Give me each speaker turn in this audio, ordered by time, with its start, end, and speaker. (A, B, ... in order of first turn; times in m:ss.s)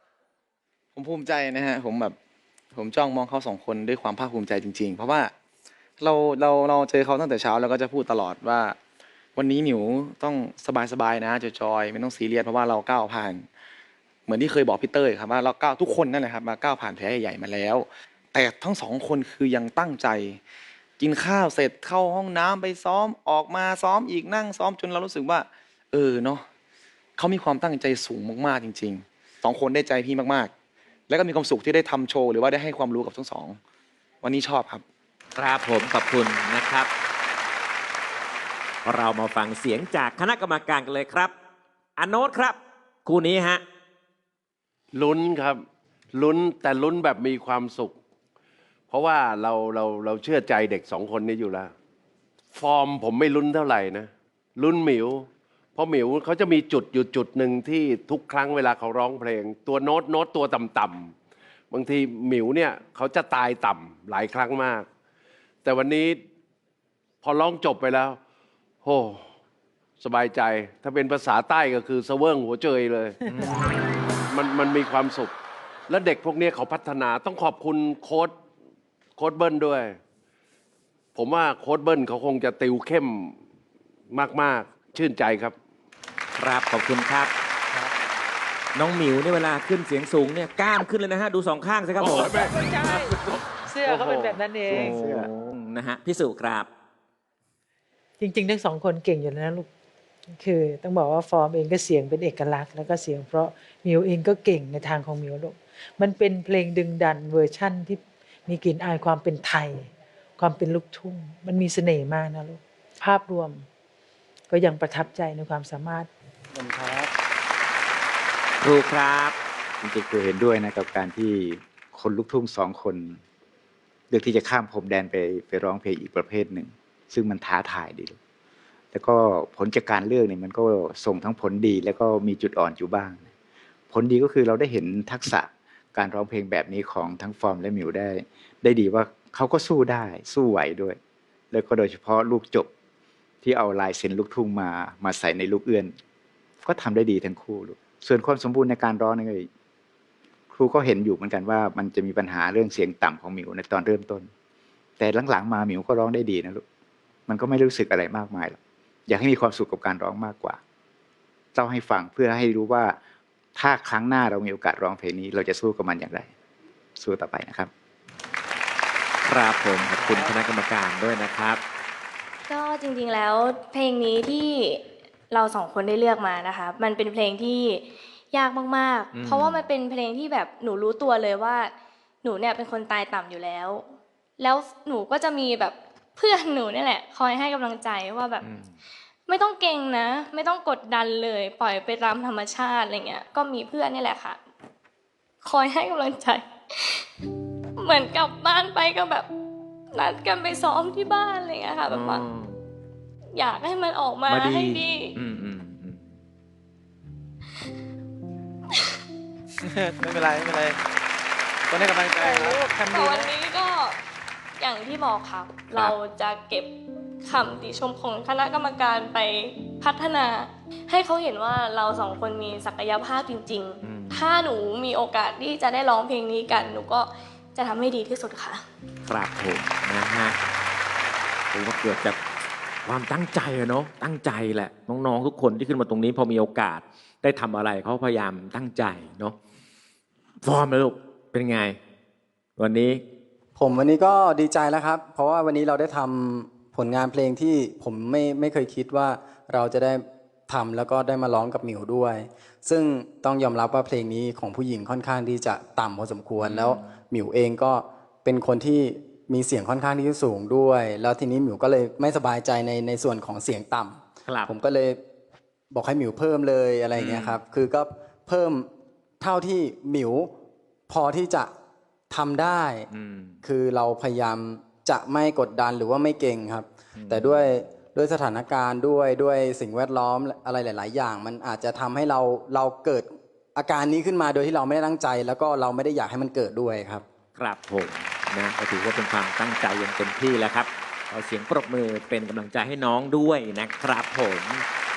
0:01.0-0:02.2 A
0:02.7-0:05.3 A
0:06.0-0:08.8 A
0:09.4-0:13.5 A
0:14.3-0:20.4 A
0:21.0-0:26.4 A
0:27.2-0:30.5 A
0:31.1-0:33.6 A
0:34.2-0:34.8 A
0:35.4-0:36.9 B
0:38.8-0:41.3 B
0:42.0-0:43.6 B
0:44.9-0:48.0 C
0:48.9-0:51.7 C
0:52.5-1:01.1 C
1:01.7-1:04.9 C
1:05.6-1:06.2 C
1:07.2-1:08.2 C
1:08.8-1:09.3 C
1:10.0-1:13.2 C
1:13.3-1:13.6 B
1:14.3-1:15.3 C
1:15.9-1:18.3 C
1:19.2-1:20.0 C
1:21.1-1:23.4 C
1:24.1-1:25.5 C
1:26.4-1:27.3 B
1:28.7-1:32.5 B
1:32.0-1:34.4 C
1:32.5-1:35.0 D
1:34.7-1:35.3 E
1:34.7-1:36.7 B
1:38.2-1:39.7 D
1:40.4-1:53.6 D
1:54.5-1:56.1 D
1:56.5-1:57.1 F
1:58.6-1:59.3 B
1:59.8-2:03.2 E
2:04.1-2:08.2 E
2:08.9-2:13.2 E
2:13.9-2:21.0 E
2:21.5-2:22.7 E
2:23.4-2:25.9 E
2:26.6-2:29.5 E
2:30.5-2:34.3 E
2:35.0-2:36.6 E
2:37.3-2:40.6 E
2:41.5-2:43.0 E
2:43.6-2:46.3 E
2:47.0-2:47.7 E
2:49.2-2:51.6 B
2:52.5-3:03.8 G
2:59.1-2:59.6 B
3:04.4-3:08.4 G
3:08.4-3:08.7 B
3:09.3-3:14.4 G
3:15.4-3:17.2 G
3:17.8-3:19.3 G
3:19.9-3:22.3 G
3:21.9-3:22.6 B
3:23.3-3:25.1 G
3:24.3-3:26.1 B
3:29.6-3:30.8 A
3:31.7-3:32.6 A
3:32.0-3:33.3 D
3:32.9-3:34.0 G
3:34.6-3:36.7 G
3:37.2-3:48.6 G
3:43.8-3:44.3 B
3:49.0-3:50.3 B
3:51.5-3:52.2 B
3:52.8-3:59.4 B
4:00.4-4:01.8 B
4:02.6-4:03.0 B
4:03.6-4:25.0 F
4:16.4-4:16.9 B
4:24.2-4:24.5 B
4:25.7-4:28.7 F
4:27.0-4:27.4 B
4:29.2-4:30.3 F
4:30.9-4:31.5 F
4:32.1-4:32.9 F
4:32.9-4:33.4 B
4:33.4-4:47.0 F
4:37.0-4:37.5 B
4:47.4-4:54.6 B